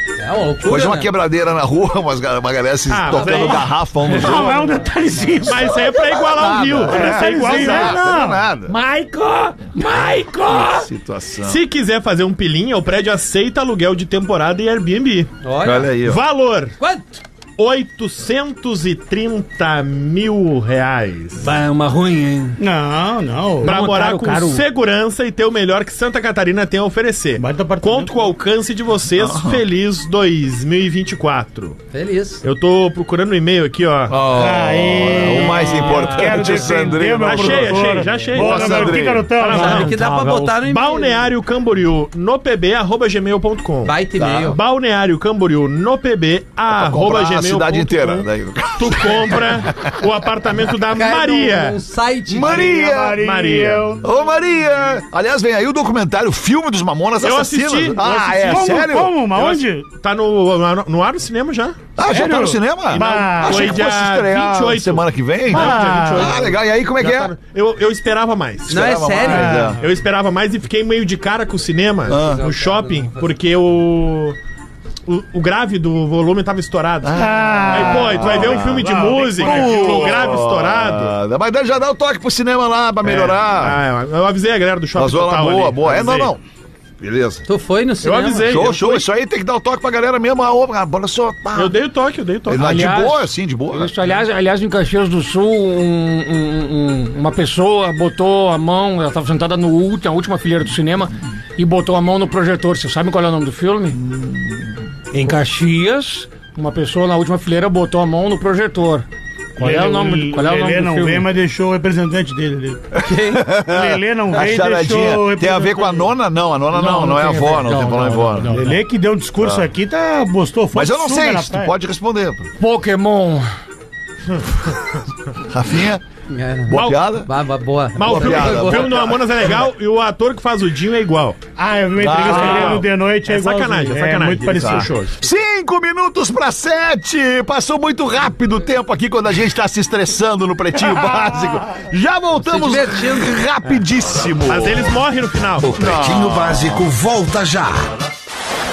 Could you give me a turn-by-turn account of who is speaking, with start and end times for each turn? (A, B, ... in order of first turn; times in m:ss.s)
0:00.2-0:01.1 A
0:00.6-0:04.8 B
0:02.9-0:03.7 C
0:04.1-0:06.0 D
0:05.4-0:08.0 C
0:05.5-0:08.8 B
0:06.8-0:08.4 D
0:08.7-0:10.9 E
0:10.4-0:11.6 B
0:11.4-0:15.3 C
0:15.4-0:15.9 A
0:15.6-0:16.2 B
0:15.9-0:16.8 C
0:16.8-0:17.2 A
0:17.6-0:21.5 C
0:21.4-0:22.6 E
0:22.6-0:23.8 D
0:23.6-0:24.6 E
0:23.6-0:31.8 C
0:27.4-0:28.2 D
0:29.2-0:29.6 B
0:31.9-0:32.4 A
0:32.4-0:34.2 C
0:34.1-0:39.3 B
0:34.3-0:39.9 D
0:35.8-0:51.8 C
0:39.5-0:41.2 A
0:39.5-0:40.4 E
0:43.8-0:44.6 A
0:44.2-0:44.5 B
0:46.7-0:50.0 B
0:50.9-0:52.7 A
0:52.3-0:53.2 B
0:52.3-0:54.1 D
0:52.4-0:54.0 C
0:54.0-0:59.1 B
0:57.2-1:02.3 C
0:58.5-0:59.8 D
1:02.0-1:07.3 B
1:02.0-1:03.8 D
1:02.9-1:14.4 C
1:05.5-1:06.3 D
1:08.7-1:09.7 A
1:08.7-1:09.8 B
1:09.2-1:09.8 D
1:12.1-1:13.4 A
1:12.1-1:12.4 B
1:15.1-1:21.2 C
1:17.0-1:23.8 B
1:17.2-1:20.1 D
1:23.0-1:26.3 C
1:25.0-1:26.4 B
1:27.0-1:27.5 B
1:27.5-1:28.6 A
1:28.0-1:29.1 C
1:28.4-1:31.8 B
1:31.6-1:32.8 C
1:32.5-1:33.9 B
1:32.5-1:44.0 E
1:43.9-1:44.7 B
1:45.1-1:51.3 E
1:49.6-1:52.9 D
1:52.9-1:58.6 B
1:53.0-1:53.4 A
1:53.6-1:56.1 D
1:56.7-1:58.8 E
1:58.5-2:01.7 D
1:59.4-1:59.7 B
2:00.7-2:02.5 B
2:02.6-2:03.5 E
2:05.4-2:06.0 B
2:06.3-2:09.1 A
2:06.7-2:07.3 B
2:06.7-2:07.0 C
2:08.0-2:09.4 B
2:08.0-2:11.4 C
2:11.6-2:14.9 D
2:12.0-2:12.8 B
2:12.0-2:15.2 C
2:14.6-2:25.0 B
2:22.4-2:23.4 A
2:24.4-2:25.8 C
2:25.6-2:26.9 B
2:25.8-2:27.9 F